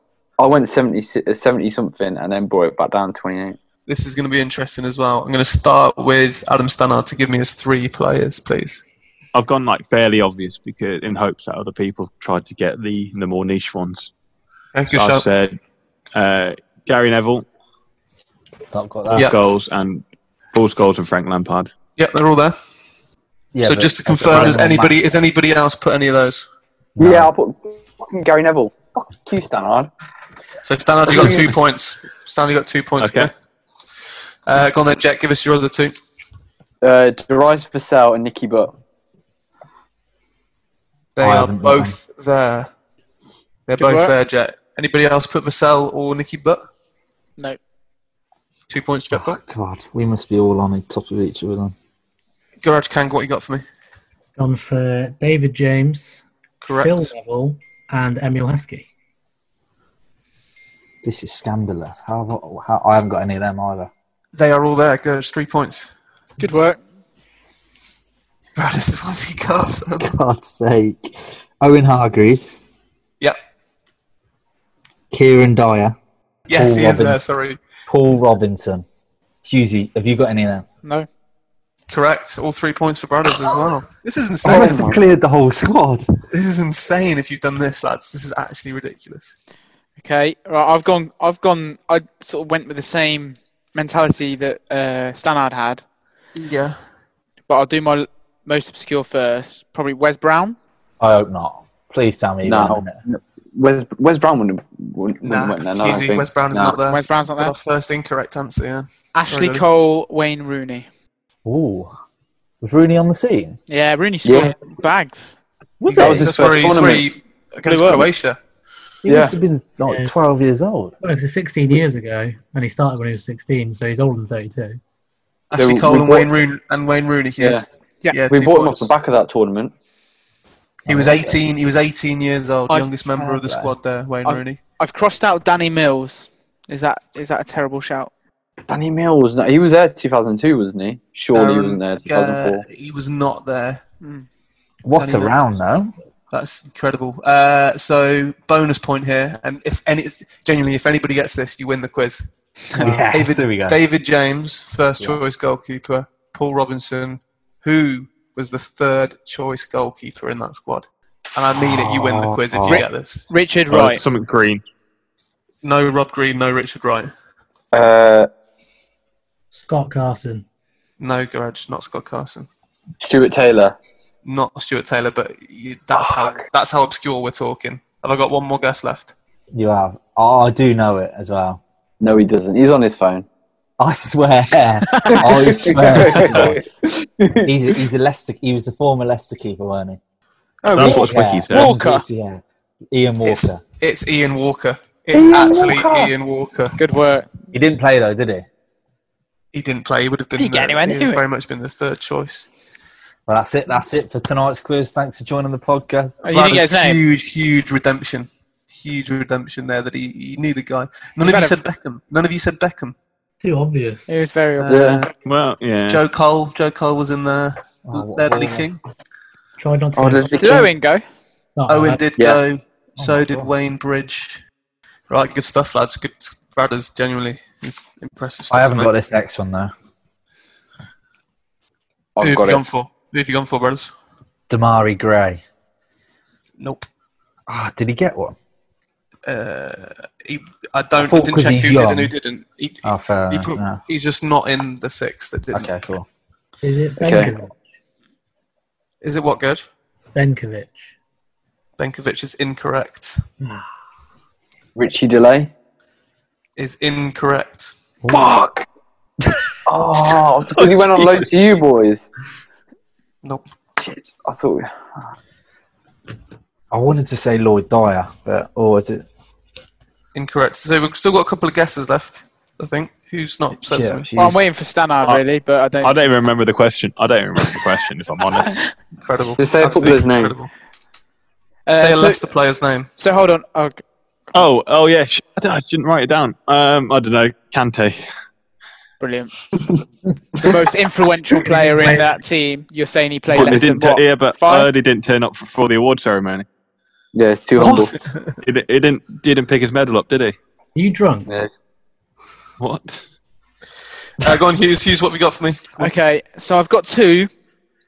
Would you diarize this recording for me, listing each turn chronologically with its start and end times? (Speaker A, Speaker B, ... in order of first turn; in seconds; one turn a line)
Speaker A: 0.4-3.6
Speaker B: 3.9-8.8
Speaker C: 9.3-14.1
Speaker B: 14.7-15.3
Speaker C: 14.9-15.6
Speaker C: 16.1-17.4
Speaker D: 18.7-19.3
Speaker C: 19.1-21.7
Speaker B: 22.0-22.6
Speaker D: 23.5-25.0
Speaker B: 23.6-26.5
Speaker D: 27.0-27.3
Speaker A: 27.0-29.9
Speaker B: 30.6-33.3
Speaker A: 31.1-31.5
Speaker C: 33.0-33.3
Speaker B: 34.5-36.0
Speaker A: 36.8-38.8
Speaker B: 41.2-42.7
Speaker D: 41.2-42.0
Speaker B: 43.7-46.6
Speaker E: 43.8-44.1
Speaker B: 48.7-49.4
Speaker D: 49.1-51.8
Speaker B: 52.6-53.6
Speaker F: 54.4-58.9
Speaker B: 56.6-57.1
Speaker D: 61.0-63.9
Speaker B: 64.3-65.9
Speaker E: 66.4-66.8
Speaker B: 68.6-70.1
Speaker D: 70.0-72.6
Speaker D: 75.1-76.0
Speaker B: 76.5-77.6
Speaker D: 76.5-77.3
Speaker D: 77.9-78.8
Speaker D: 79.4-80.7
Speaker B: 81.9-85.0
Speaker D: 84.4-86.0
Speaker A: 84.5-85.0
Speaker B: 86.3-89.4
Speaker E: 90.0-95.8
Speaker B: 96.4-96.8
Speaker E: 97.5-100.6
Speaker D: 101.0-103.0
Speaker A: 102.5-106.8
Speaker B: 105.2-109.7
Speaker E: 106.8-107.5
Speaker E: 109.2-110.9
Speaker D: 111.5-111.9
Speaker D: 112.6-113.6
Speaker E: 113.7-115.4
Speaker A: 114.2-114.5
Speaker D: 115.8-116.4
Speaker B: 116.0-118.4
Speaker A: 116.0-117.1
Speaker E: 117.7-118.1
Speaker D: 119.0-120.9
Speaker A: 119.1-119.4
Speaker F: 119.9-120.1
Speaker F: 121.0-124.8
Speaker B: 125.5-128.9
Speaker A: 125.6-126.3
Speaker A: 127.4-127.7
Speaker A: 128.3-129.7
Speaker B: 130.9-134.6
Speaker D: 130.9-131.2
Speaker A: 130.9-131.3
Speaker E: 132.7-133.0
Speaker A: 133.2-133.7
Speaker E: 134.2-138.1
Speaker A: 138.7-142.7
Speaker B: 141.3-143.8
Speaker E: 144.0-144.3
Speaker D: 144.8-145.9
Speaker B: 145.0-145.4
Speaker B: 146.3-152.3
Speaker D: 152.7-153.8
Speaker B: 152.8-163.3
Speaker D: 161.6-162.8
Speaker E: 162.7-164.0
Speaker C: 163.7-164.6
Speaker B: 165.6-167.1
Speaker A: 167.7-168.3
Speaker F: 169.5-170.5
Speaker B: 171.0-172.5
Speaker A: 173.0-173.8
Speaker B: 174.2-179.1
Speaker A: 176.0-176.4
Speaker D: 179.5-181.6
Speaker A: 182.0-183.3
Speaker D: 183.8-186.6
Speaker E: 184.9-186.0
Speaker A: 185.1-187.5
Speaker D: 187.4-190.0
Speaker E: 190.6-192.0
Speaker C: 190.8-191.8
Speaker D: 190.8-193.6
Speaker B: 193.2-196.8
Speaker A: 195.1-196.1
Speaker E: 196.8-197.3
Speaker D: 197.5-198.5
Speaker B: 199.5-202.5
Speaker E: 200.4-201.2
Speaker D: 203.3-206.2
Speaker E: 206.2-207.0
Speaker B: 206.2-213.0
Speaker E: 211.2-211.6
Speaker F: 213.4-214.1
Speaker E: 214.1-214.9
Speaker B: 214.6-215.1
Speaker A: 214.7-215.1
Speaker C: 215.2-216.0
Speaker B: 215.9-218.8
Speaker D: 217.9-218.7
Speaker F: 219.6-220.7
Speaker A: 220.0-220.7
Speaker E: 220.4-221.0
Speaker F: 221.6-222.0
Speaker B: 221.7-224.4
Speaker D: 223.0-223.5
Speaker B: 225.1-229.0
Speaker D: 228.5-229.7
Speaker A: 232.2-232.7
Speaker B: 232.2-233.9
Speaker D: 234.5-235.4
Speaker B: 236.6-236.9
Speaker D: 237.5-238.4
Speaker B: 239.3-245.8
Speaker D: 241.0-242.1
Speaker D: 242.8-243.8
Speaker D: 245.5-246.1
Speaker F: 246.6-247.6
Speaker A: 247.0-247.3
Speaker B: 249.0-249.6
Speaker F: 250.2-250.9
Speaker B: 251.8-253.2
Speaker A: 254.8-255.5
Speaker B: 256.6-257.8
Speaker D: 258.0-258.3
Speaker A: 258.1-258.7
Speaker A: 259.7-262.1
Speaker C: 260.6-261.1
Speaker A: 263.8-264.7
Speaker D: 266.7-269.1
Speaker B: 270.1-274.1
Speaker D: 273.7-274.4
Speaker E: 274.2-276.0
Speaker C: 275.8-278.6
Speaker B: 279.0-280.5
Speaker A: 279.4-280.4
Speaker E: 281.7-282.2
Speaker B: 281.8-282.9
Speaker E: 283.0-283.8
Speaker C: 284.3-288.0
Speaker E: 289.0-289.4
Speaker E: 290.4-294.7
Speaker F: 291.4-292.1
Speaker C: 293.3-296.5
Speaker A: 297.1-298.0
Speaker B: 297.7-298.4
Speaker C: 298.4-300.4
Speaker F: 300.8-301.3
Speaker A: 301.3-301.5
Speaker C: 302.6-303.1
Speaker B: 304.2-305.9
Speaker E: 305.8-307.3